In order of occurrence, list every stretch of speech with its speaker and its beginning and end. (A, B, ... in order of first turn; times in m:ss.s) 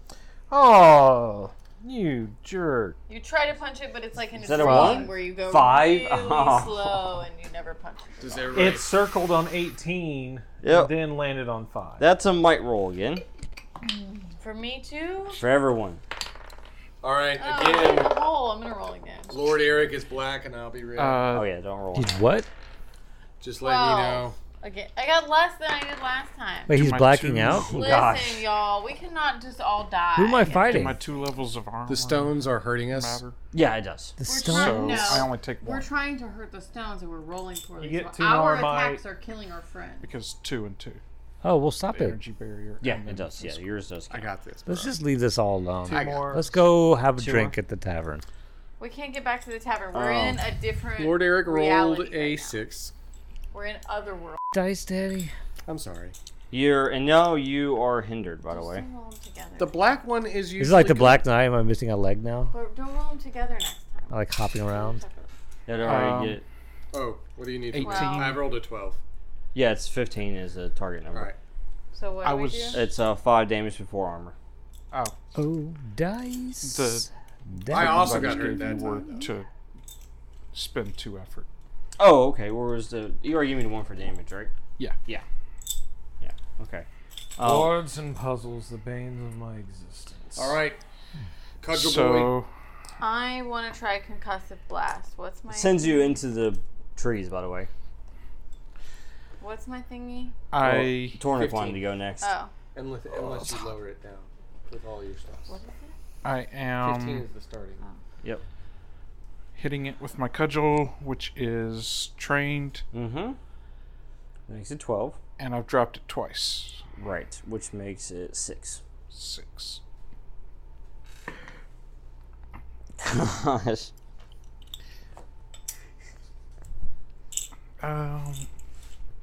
0:00.5-0:03.0 A
0:03.1-0:08.7 B
0:04.4-0:07.0 C
0:08.2-0:08.9 D
0:08.5-0:12.1 A
0:10.6-0:10.9 C
0:12.0-0:13.2 C
0:13.8-0:15.4 B
0:15.4-0:16.0 C
0:17.0-0:18.1 D
0:17.4-0:19.4 B
0:19.3-0:21.3 D
0:21.0-0:21.5 E
0:21.3-0:22.2 C
0:21.9-0:22.5 F
0:23.4-0:24.4 D
0:23.6-0:26.7 B
0:26.7-0:27.9 F
0:26.7-0:27.9 E
0:27.6-0:28.4 C
0:27.7-0:31.0 B
0:30.2-0:31.0 F
0:30.5-0:33.4 E
0:31.8-0:33.2 D
0:33.5-0:34.2 C
0:34.2-0:35.2 F
0:34.2-0:40.1 B
0:34.4-0:35.9 E
0:37.8-0:39.0 A
0:40.0-0:41.0 E
0:41.4-0:42.2 F
0:41.9-0:43.6 E
0:42.8-0:44.3 C
0:44.1-0:45.0 D
0:44.6-0:48.2 F
0:45.8-0:46.5 A
0:45.9-0:46.6 D
0:47.2-0:47.5 C
0:48.8-0:52.6 B
0:49.9-0:50.4 C
0:51.0-0:52.9 D
0:53.5-0:54.4 B
0:54.5-0:55.3 F
0:55.6-0:56.1 D
0:56.5-0:58.8 C
0:58.5-1:00.0 B
0:59.6-1:01.3 D
1:00.6-1:02.5 F
1:02.5-1:05.3 B
1:04.1-1:05.0 F
1:05.7-1:06.4 C
1:05.8-1:06.4 E
1:06.9-1:09.0 D
1:07.7-1:08.5 E
1:07.8-1:08.4 B
1:09.5-1:11.3 C
1:11.1-1:11.4 D
1:11.9-1:12.8 B
1:12.2-1:12.8 E
1:12.7-1:14.4 C
1:15.3-1:18.8 F
1:16.6-1:17.1 E
1:17.7-1:19.5 E
1:17.7-1:19.3 D
1:20.5-1:21.5 E
1:22.0-1:24.5 C
1:26.2-1:27.8 C
1:27.4-1:30.4 A
1:30.4-1:30.8 D
1:31.6-1:32.4 D
1:31.7-1:32.5 E
1:33.0-1:36.2 B
1:35.5-1:37.7 C
1:39.4-1:40.4 B
1:40.5-1:41.2 E
1:40.6-1:42.3 C
1:41.3-1:41.8 D
1:42.2-1:42.5 B
1:42.7-1:45.6 D
1:45.5-1:46.0 B
1:46.2-1:47.2 E
1:46.8-1:47.8 D
1:49.6-1:52.8 E
1:52.9-1:53.4 C
1:54.5-1:55.2 C
1:55.4-1:56.8 E
1:57.0-1:58.8 C
1:59.1-1:59.8 E
2:03.0-2:03.9 C
2:07.8-2:08.5 E